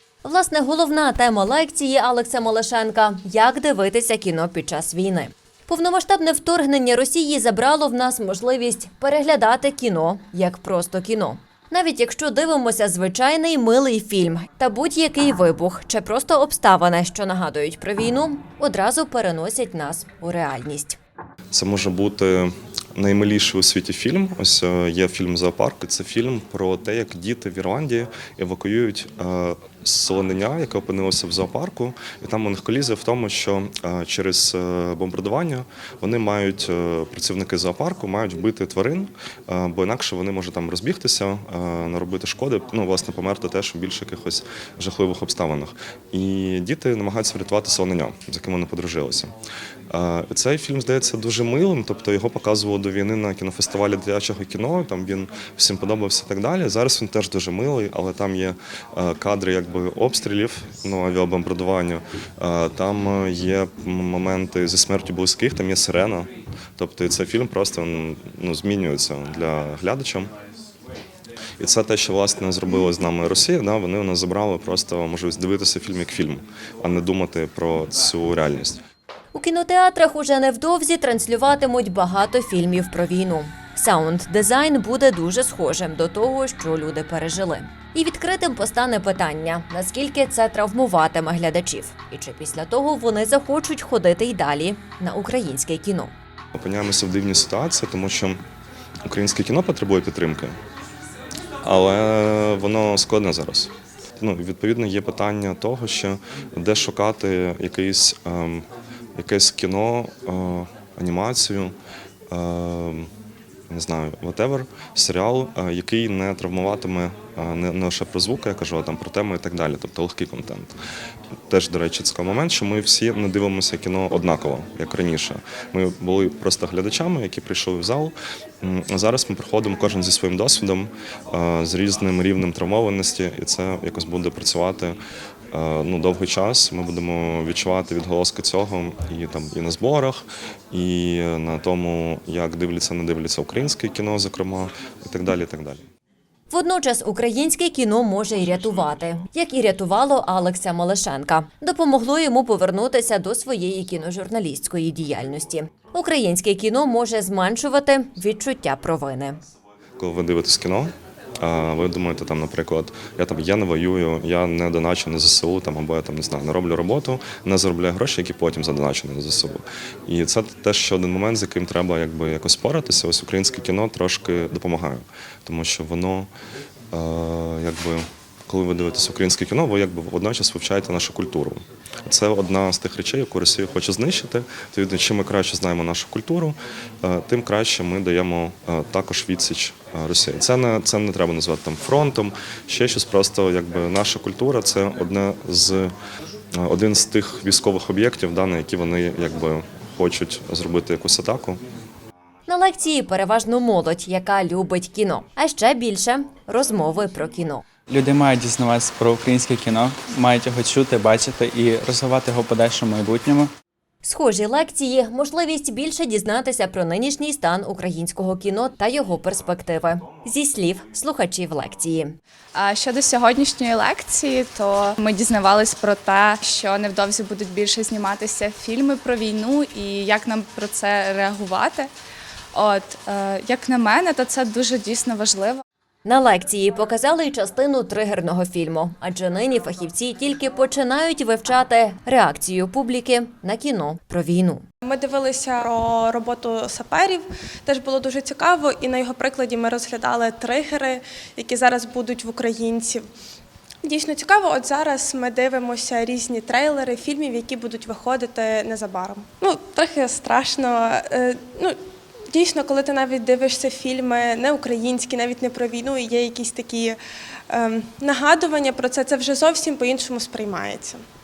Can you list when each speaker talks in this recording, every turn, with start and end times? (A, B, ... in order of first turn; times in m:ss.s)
0:00.2-0:21.0 A
0:21.5-0:49.3 B
0:49.9-1:10.3 B
1:11.6-1:18.8 B
1:19.3-1:36.1 A
1:36.6-1:38.4 B
1:39.1-1:40.6 B
1:41.6-1:51.8 B
1:52.3-1:53.1 B
1:53.7-2:00.8 B
2:01.5-2:15.0 B
2:15.5-2:25.8 B
2:26.5-2:39.4 A
2:40.0-2:56.3 B
2:56.9-3:15.9 B
3:16.5-3:21.6 B
3:22.5-3:27.6 A
3:27.9-3:33.5 C
3:34.0-3:42.2 A
3:42.6-3:51.9 D
3:52.5-3:55.6 D
3:56.0-4:04.6 A
4:04.9-4:13.1 E
4:13.8-4:21.8 E
4:22.3-4:27.0 E
4:27.5-4:31.0 E